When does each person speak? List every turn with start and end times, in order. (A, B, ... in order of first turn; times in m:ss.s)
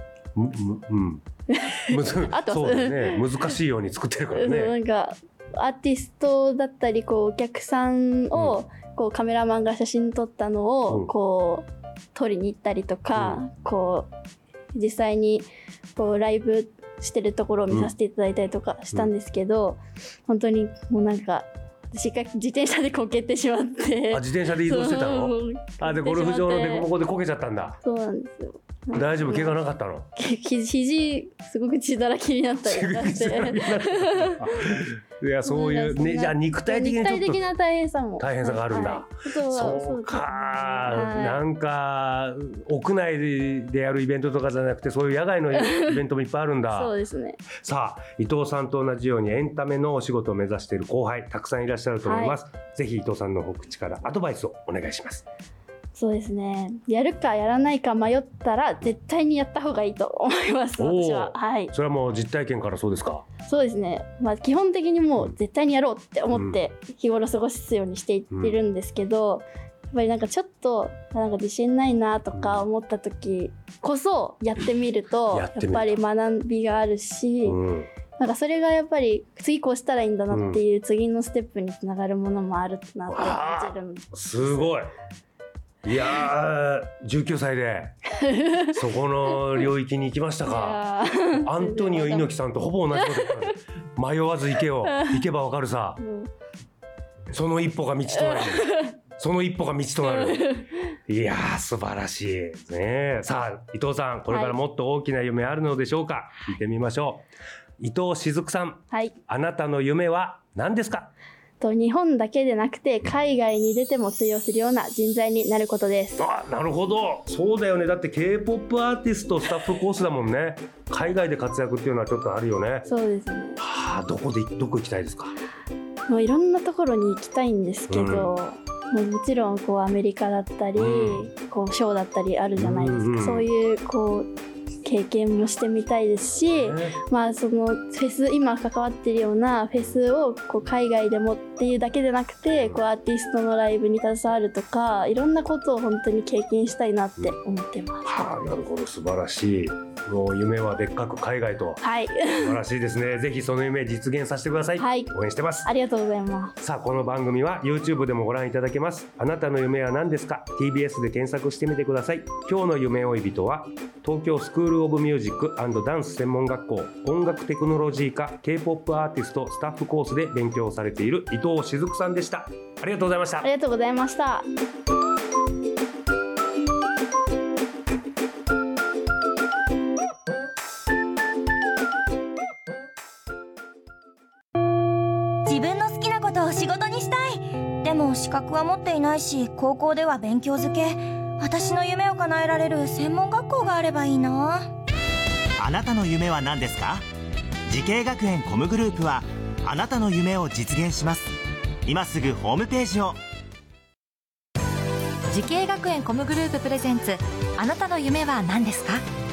0:00.3-0:01.2 A
0:01.5-0:03.5 B
0:01.9-0:04.8 A
0:04.3-0:14.1 B
0:08.3-0:08.6 A
0:13.1-0:13.4 A
0:14.7-0:26.9 B
0:24.1-0:27.8 A
0:27.8-0:29.5 B
0:28.9-0:30.1 A
0:30.1-0:34.4 B
0:32.6-0:37.4 A
0:35.4-0:41.4 B
0:38.2-0:46.9 A
0:45.5-0:46.0 B
0:46.7-0:47.4 B
0:47.6-0:55.2 A
0:52.0-0:52.4 B
0:55.9-1:01.7 B
1:00.8-1:03.2 A
1:03.4-1:17.6 B
1:06.3-1:06.6 A
1:08.3-1:08.6 A
1:12.3-1:12.6 A
1:15.3-1:15.9 A
1:17.4-1:17.9 A
1:18.2-1:24.7 B
1:20.3-1:20.6 A
1:23.1-1:24.9 A
1:25.8-1:27.9 A
1:28.2-1:28.8 B
1:28.7-1:36.0 A
1:30.4-1:32.3 B
1:32.9-1:33.5 B
1:34.9-1:35.2 B
1:36.0-1:36.3 B
1:37.3-1:47.3 A
1:38.1-1:38.9 B
1:40.0-1:40.7 B
1:44.3-1:44.6 B
1:47.8-1:51.1 A
1:51.6-1:56.2 B
1:56.2-2:02.9 A
2:02.8-2:03.6 B
2:03.6-2:05.3 A
2:06.1-2:14.3 B
2:07.9-2:08.3 A
2:10.8-2:11.2 A
2:12.6-2:13.5 A
2:14.8-2:28.1 B
2:16.5-2:17.0 A
2:22.5-2:22.8 A
2:28.0-2:31.8 A
2:31.8-2:32.6 B
2:32.4-2:35.7 A
2:34.8-2:35.1 B
2:35.6-2:36.5 B
2:36.6-2:53.5 A
2:53.4-2:54.5 B
3:05.5-3:14.6 C
3:15.6-3:17.0 D
3:17.7-3:23.2 D
3:25.3-3:29.0 E